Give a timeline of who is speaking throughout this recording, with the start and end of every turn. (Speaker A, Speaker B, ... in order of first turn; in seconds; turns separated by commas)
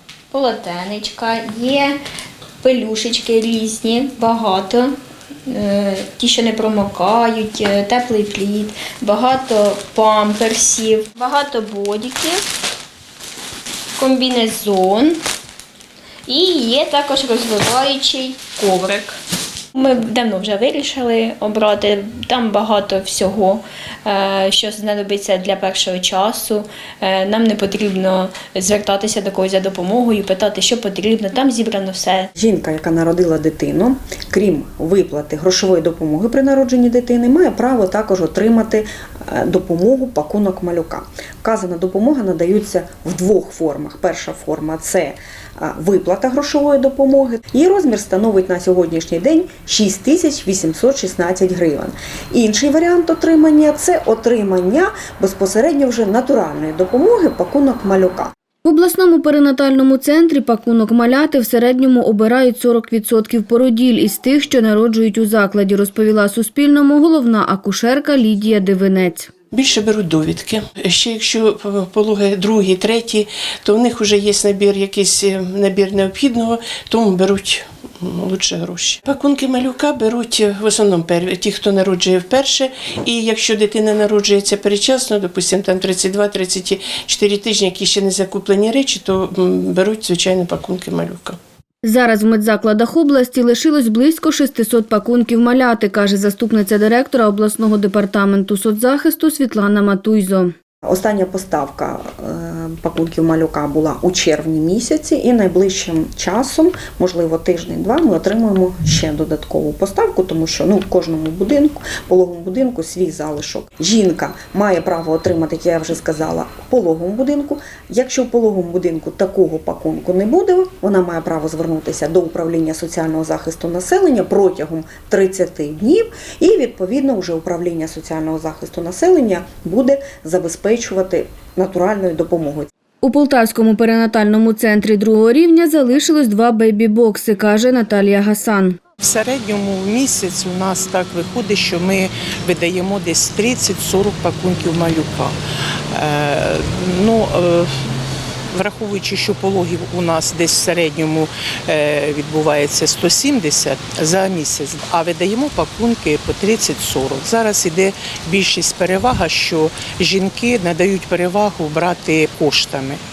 Speaker A: 0.3-2.0, Speaker A: 2.6-4.9, Speaker A: 5.5-12.4, Speaker A: 14.0-15.2, Speaker A: 16.3-19.2, Speaker A: 19.8-32.3, Speaker B: 32.4-58.3, Speaker C: 58.6-69.3, Speaker D: 69.5-91.4, Speaker C: 91.8-100.5, Speaker B: 100.9-132.7, Speaker C: 133.0-138.8, Speaker E: 139.0-145.3, Speaker E: 145.9-147.7, Speaker E: 148.5-163.0